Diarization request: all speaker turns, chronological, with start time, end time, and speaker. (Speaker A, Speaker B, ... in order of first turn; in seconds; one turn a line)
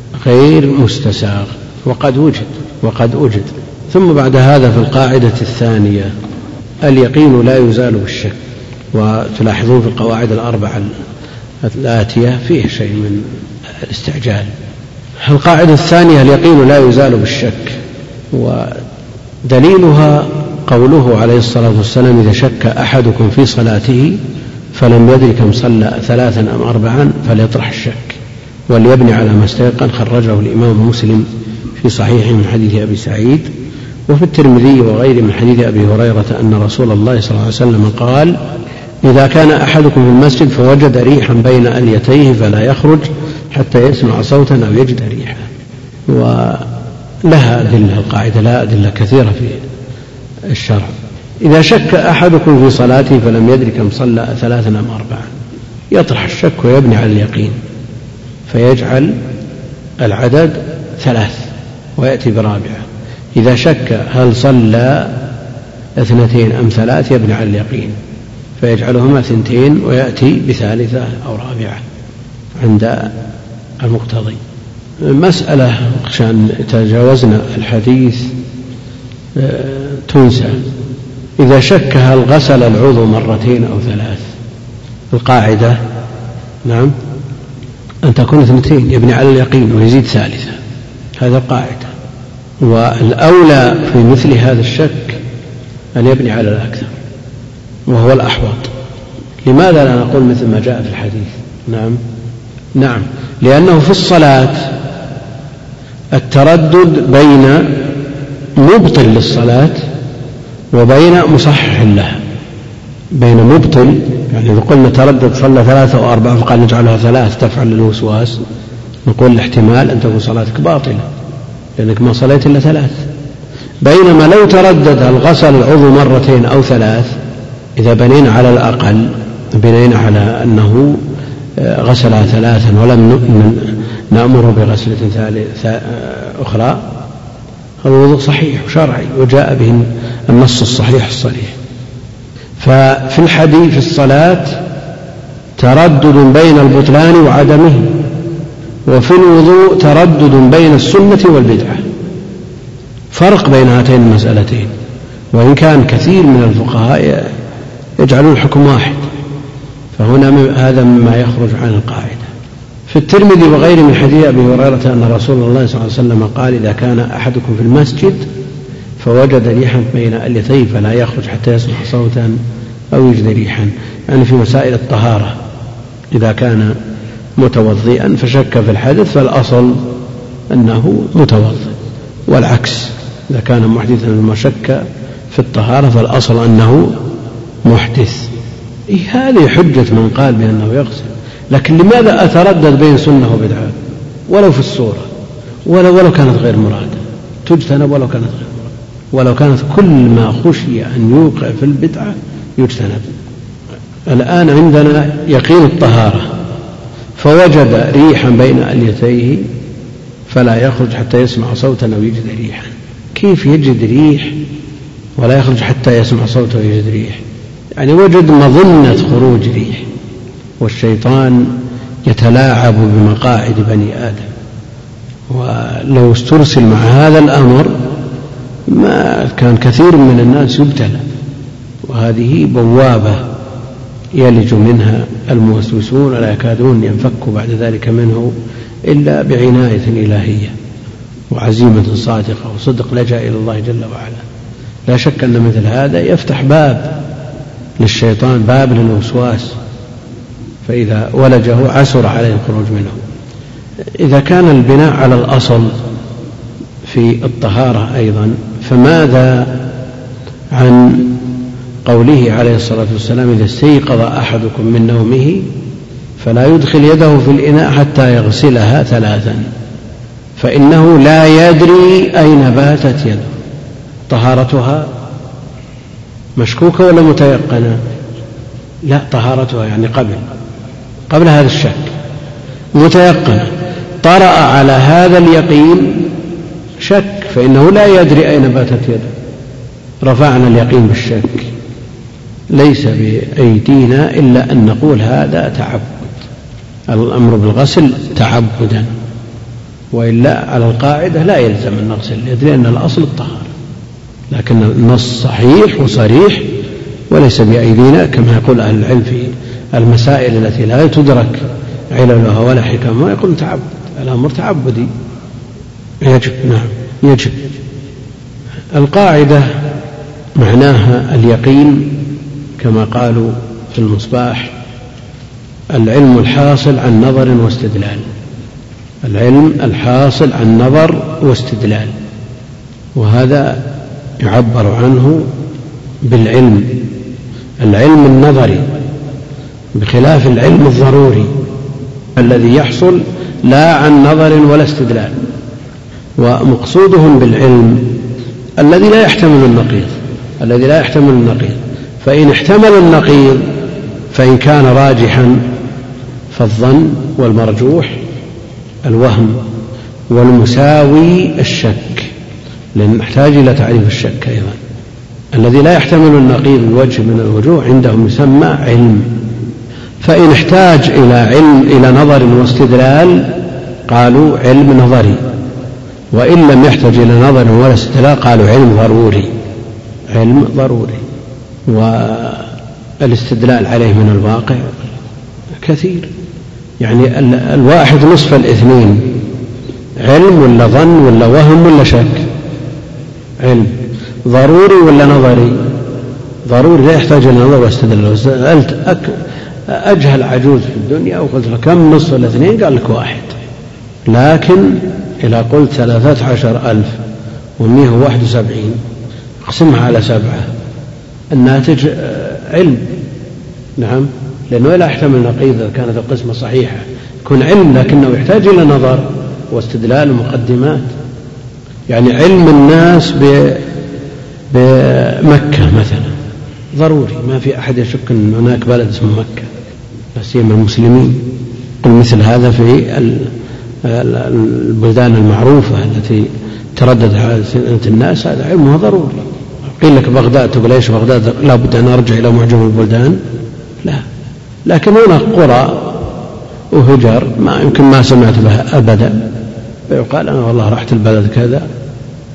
Speaker A: 0.2-6.1
Speaker A: 6.8-8.4
Speaker A: 8.9-10.9
Speaker A: 11.6-13.3
Speaker A: 13.8-14.5
Speaker A: 15.2-17.8
Speaker A: 18.3-18.8
Speaker A: 19.4-24.2
Speaker A: 24.7-31.3
Speaker A: 31.8-33.5
Speaker A: 34.1-38.4
Speaker A: 39.0-45.5
Speaker A: 46.1-46.7
Speaker A: 47.2-49.6
Speaker A: 50.5-55.3
Speaker A: 55.9-57.6
Speaker A: 58.5-59.2
Speaker A: 60.0-62.8
Speaker A: 63.3-65.2
Speaker A: 66.0-68.0
Speaker A: 68.6-71.8
Speaker A: 72.6-73.1
Speaker A: 73.8-74.4
Speaker A: 75.0-78.3
Speaker A: 79.3-80.6
Speaker A: 81.4-84.2
Speaker A: 85.1-85.8
Speaker A: 86.6-86.9
Speaker A: 88.0-90.6
Speaker A: 91.2-91.9
Speaker A: 92.6-95.2
Speaker A: 96.0-96.9
Speaker A: 97.9-98.7
Speaker A: 99.4-102.0
Speaker A: 102.8-104.7
Speaker A: 106.1-107.9
Speaker A: 108.6-109.8
Speaker A: 110.7-112.2
Speaker A: 113.1-118.4
Speaker A: 119.0-121.0
Speaker A: 121.8-123.1
Speaker A: 123.8-127.1
Speaker A: 127.8-131.0
Speaker A: 131.6-136.8
Speaker A: 137.8-141.6
Speaker A: 142.6-144.6
Speaker A: 145.6-148.0
Speaker A: 148.8-151.8
Speaker A: 153.1-154.7
Speaker A: 155.3-157.3
Speaker A: 158.0-159.1
Speaker A: 159.9-162.3
Speaker A: 162.9-168.3
Speaker A: 169.0-172.4
Speaker A: 172.9-175.4
Speaker A: 176.1-176.8
Speaker A: 177.4-179.8
Speaker A: 180.5-181.7
Speaker A: 182.3-187.0
Speaker A: 187.6-188.3
Speaker A: 188.9-193.8
Speaker A: 194.3-195.1
Speaker A: 195.7-203.1
Speaker A: 204.1-206.3
Speaker A: 207.2-209.4
Speaker A: 210.3-214.4
Speaker A: 215.2-217.2
Speaker A: 217.8-219.8
Speaker A: 220.6-224.3
Speaker A: 225.3-227.8
Speaker A: 228.7-231.0
Speaker A: 231.8-233.2
Speaker A: 234.1-238.3
Speaker A: 238.9-240.5
Speaker A: 241.3-244.2
Speaker A: 244.9-246.9
Speaker A: 247.8-249.5
Speaker A: 250.6-253.0
Speaker A: 254.0-255.8
Speaker A: 256.8-259.6
Speaker A: 260.5-261.3
Speaker A: 261.8-265.5
Speaker A: 266.2-269.5
Speaker A: 270.4-273.3
Speaker A: 274.1-274.9
Speaker A: 276.4-277.8
Speaker A: 278.8-280.2
Speaker A: 281.1-281.9
Speaker A: 282.7-286.1
Speaker A: 286.8-289.1
Speaker A: 290.0-291.5
Speaker A: 292.5-296.1
Speaker A: 296.9-298.9
Speaker A: 299.9-303.5
Speaker A: 304.3-306.5
Speaker A: 307.1-314.9
Speaker A: 316.0-317.4
Speaker A: 318.7-319.6
Speaker A: 320.4-324.5
Speaker A: 325.7-328.1
Speaker A: 329.0-331.9
Speaker A: 332.9-333.6
Speaker A: 334.2-335.3
Speaker A: 336.1-336.9
Speaker A: 337.6-338.7
Speaker A: 339.7-341.3
Speaker A: 342.1-345.2
Speaker A: 346.2-348.0
Speaker A: 348.6-353.5
Speaker A: 354.1-355.4
Speaker A: 356.3-358.0
Speaker A: 358.8-359.4
Speaker A: 360.1-362.1
Speaker A: 362.7-364.6
Speaker A: 365.3-369.1
Speaker A: 370.0-375.2
Speaker A: 376.1-379.3
Speaker A: 380.1-381.0
Speaker A: 381.7-384.9
Speaker A: 385.6-386.1
Speaker A: 386.8-389.2
Speaker A: 390.0-392.3
Speaker A: 393.4-395.6
Speaker A: 396.4-403.4
Speaker A: 404.1-407.0
Speaker A: 407.6-408.8
Speaker A: 409.4-410.5
Speaker A: 411.3-412.9
Speaker A: 413.8-420.9
Speaker A: 421.9-423.6
Speaker A: 424.5-426.1
Speaker A: 426.8-429.5
Speaker A: 430.1-431.3
Speaker A: 431.8-433.3
Speaker A: 433.8-439.3
Speaker A: 439.8-443.2
Speaker A: 444.6-446.0
Speaker A: 446.7-449.2
Speaker A: 449.9-451.6